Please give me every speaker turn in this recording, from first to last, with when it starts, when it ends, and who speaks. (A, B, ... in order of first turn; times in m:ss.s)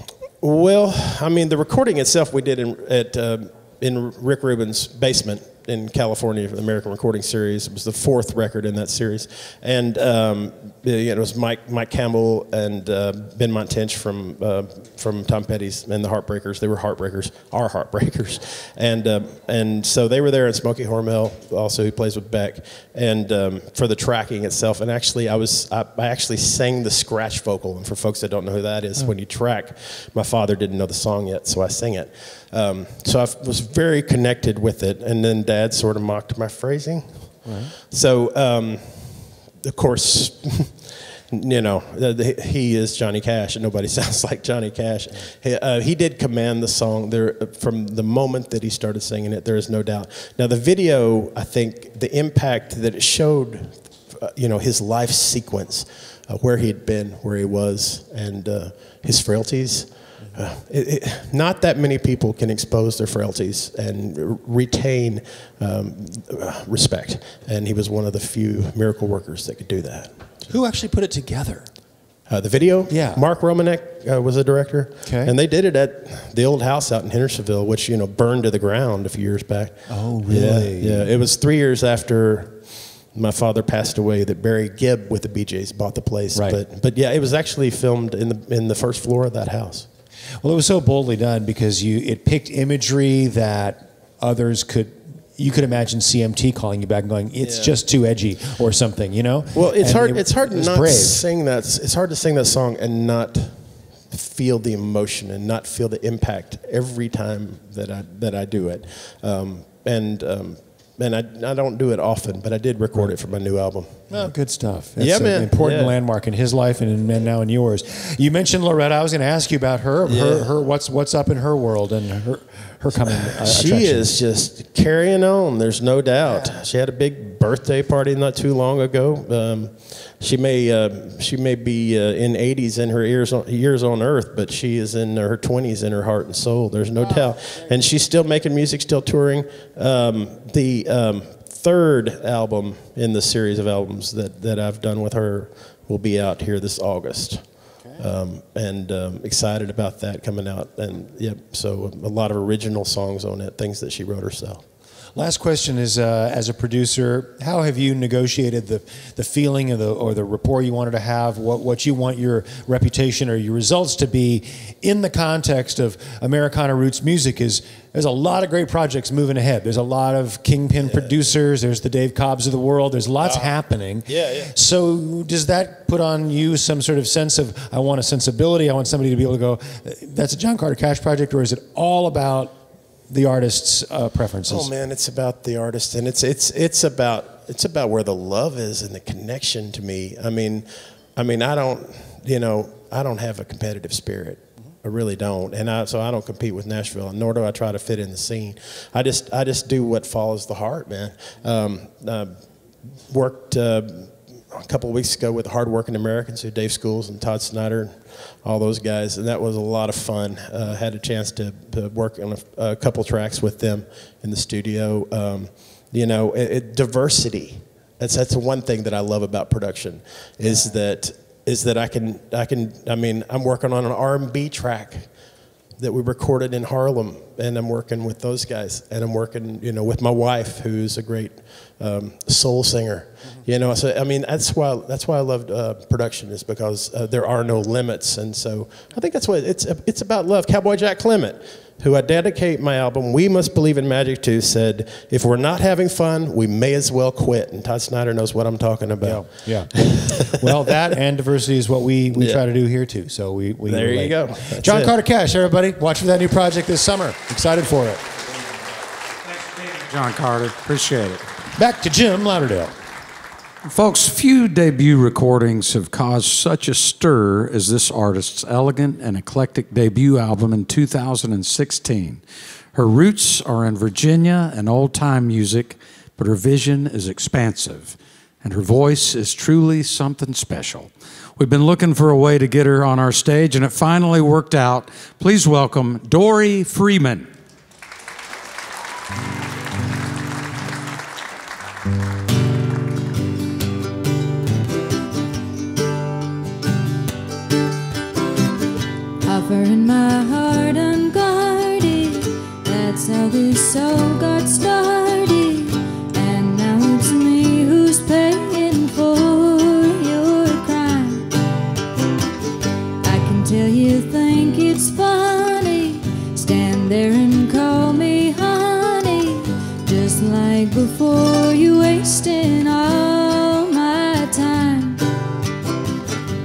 0:00.4-1:10.5 A
0:37.4-0:37.7 B
1:10.5-1:11.7 B
1:12.3-1:29.9 A
1:12.9-1:13.2 B
1:15.0-1:15.4 B
1:19.9-1:21.1 B
1:26.3-1:26.6 B
1:30.4-1:41.2 B
1:37.4-1:37.8 A
1:39.5-1:54.4 A
1:54.1-2:04.1 B
1:55.0-1:55.9 A
2:00.1-2:00.5 A
2:03.3-2:34.6 A
2:06.3-2:06.6 B
2:17.0-2:17.8 B
2:35.2-3:02.6 B
2:50.8-2:51.3 A
2:53.2-2:54.5 A
3:03.1-3:04.7 B
3:04.5-3:45.2 A
3:45.8-4:10.7 A
4:09.0-4:18.0 B
4:12.2-4:12.4 A
4:13.7-4:14.9 A
4:19.5-4:21.2 C
4:21.6-4:22.7 B
4:23.6-4:32.2 C
4:32.7-4:47.3 C
4:59.2-5:11.3 D
5:13.0-5:25.0 D